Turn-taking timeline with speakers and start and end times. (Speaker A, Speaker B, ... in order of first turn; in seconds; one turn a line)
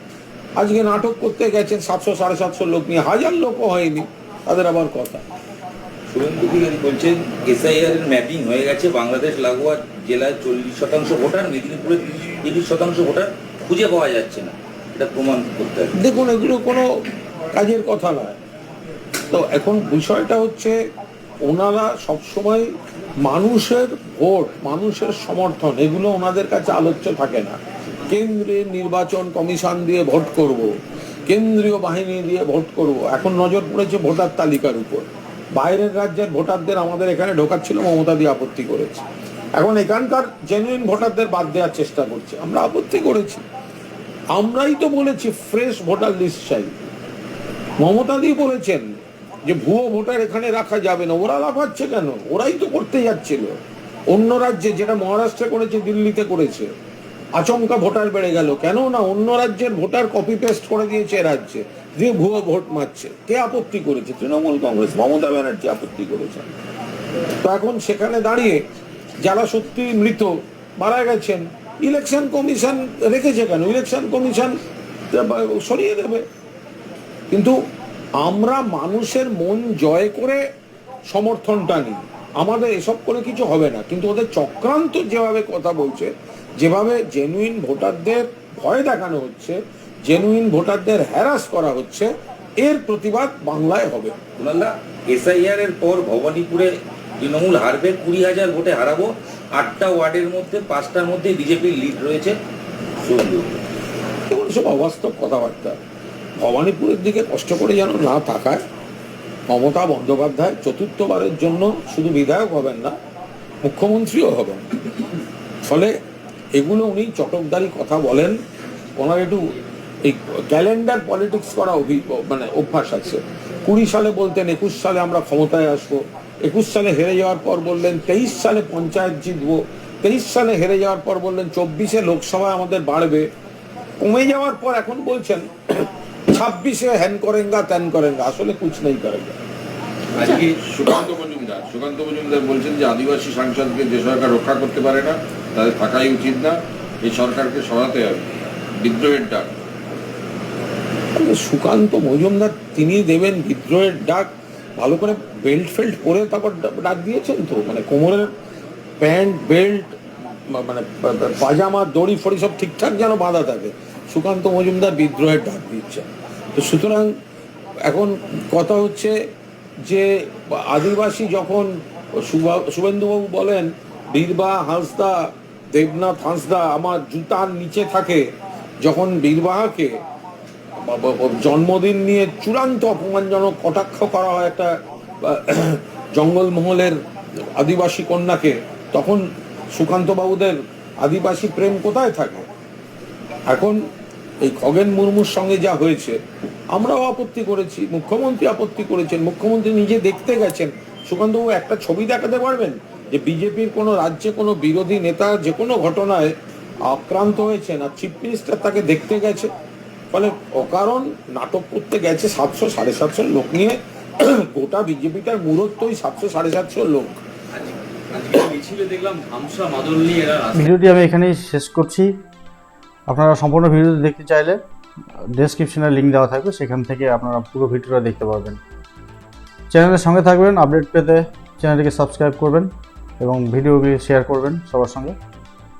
Speaker A: 0.6-5.2
Speaker B: 6.1-15.9
Speaker A: 15.9-16.9
Speaker A: 17.5-18.4
Speaker A: 19.3-20.8
Speaker A: 21.4-22.7
Speaker A: 23.2-27.6
Speaker A: 28.1-30.7
Speaker A: 31.3-39.0
Speaker A: 39.6-43.4
Speaker A: 44.3-46.9
Speaker A: 47.8-48.9
Speaker A: 49.5-53.5
Speaker A: 54.1-56.7
Speaker A: 57.4-66.5
Speaker A: 67.4-68.6
Speaker A: 69.2-74.5
Speaker A: 75.1-76.2
Speaker A: 78.2-80.4
Speaker A: 81.1-94.1
Speaker B: 94.4-102.3
Speaker B: 103.0-103.6
Speaker A: 104.3-105.8
Speaker A: 106.4-108.6
Speaker A: 109.5-112.9
Speaker A: 113.6-114.6
Speaker A: 115.6-115.9
Speaker A: 116.5-118.4
Speaker A: 119.0-119.5
Speaker A: 120.0-133.3
Speaker A: 134.0-139.4
Speaker B: 140.1-140.9
Speaker C: 140.3-149.5
Speaker A: 151.1-158.3
Speaker A: 159.0-160.0
Speaker A: 160.5-167.1
Speaker A: 167.8-169.1
Speaker A: 169.8-175.2
Speaker A: 175.7-178.2
Speaker A: 178.8-179.9
Speaker A: 180.8-184.7
Speaker A: 185.2-187.0
Speaker A: 187.6-189.2
Speaker A: 189.7-192.4
Speaker A: 193.5-193.8
Speaker A: 194.4-196.2
Speaker A: 196.7-206.3
Speaker A: 206.8-209.5
Speaker A: 210.1-217.2
Speaker B: 217.5-220.8
Speaker D: 220.6-222.1
Speaker D: 223.1-224.6
Speaker D: 225.3-228.6
Speaker D: 229.7-235.2